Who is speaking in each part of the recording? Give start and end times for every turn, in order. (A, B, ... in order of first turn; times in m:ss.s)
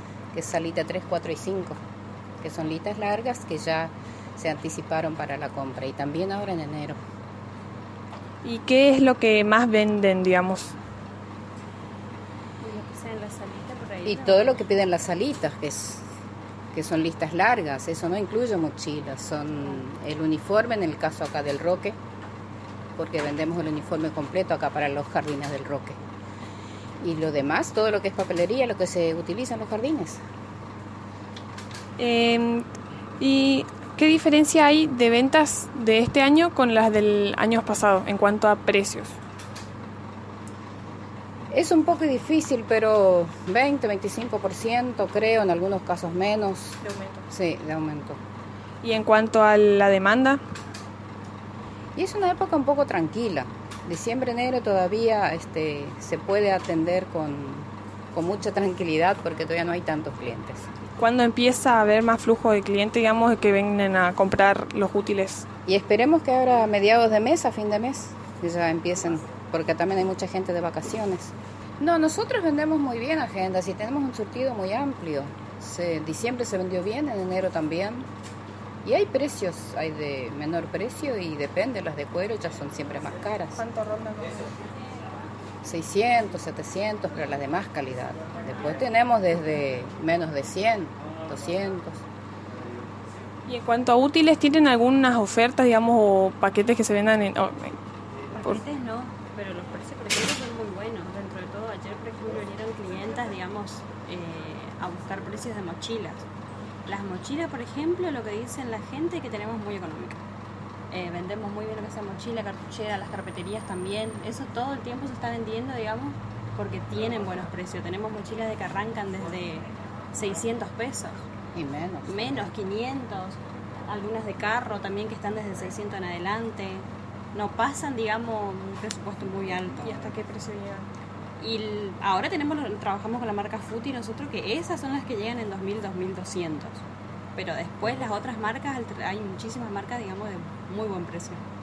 0:00.3-0:01.8 A
0:02.4-0:07.0 A
0:08.4-0:10.8 B
0:12.6-0:14.6 C
0:14.0-0:16.0 A
0:16.7-0:22.0 A
0:23.0-0:26.0 A
0:27.0-0:30.2 A
0:32.0-0:32.6 B
0:33.2-0:39.1 B
0:41.5-0:46.8 A
0:46.8-0:47.2 B
0:47.3-0:48.2 A
0:48.8-0:50.4 B
0:51.9-1:00.7 A
1:01.0-1:05.5 B
1:05.7-1:18.1 A
1:18.8-1:23.6 A
1:23.6-1:24.5 B
1:25.6-1:32.0 A
1:33.5-1:37.8 B
1:38.3-1:46.2 C
1:46.9-1:50.2 C
1:50.9-2:01.2 C
2:01.5-2:02.5 A
2:02.1-2:09.9 C
2:09.8-2:10.9 B
2:11.4-2:16.8 C
2:17.4-2:21.4 C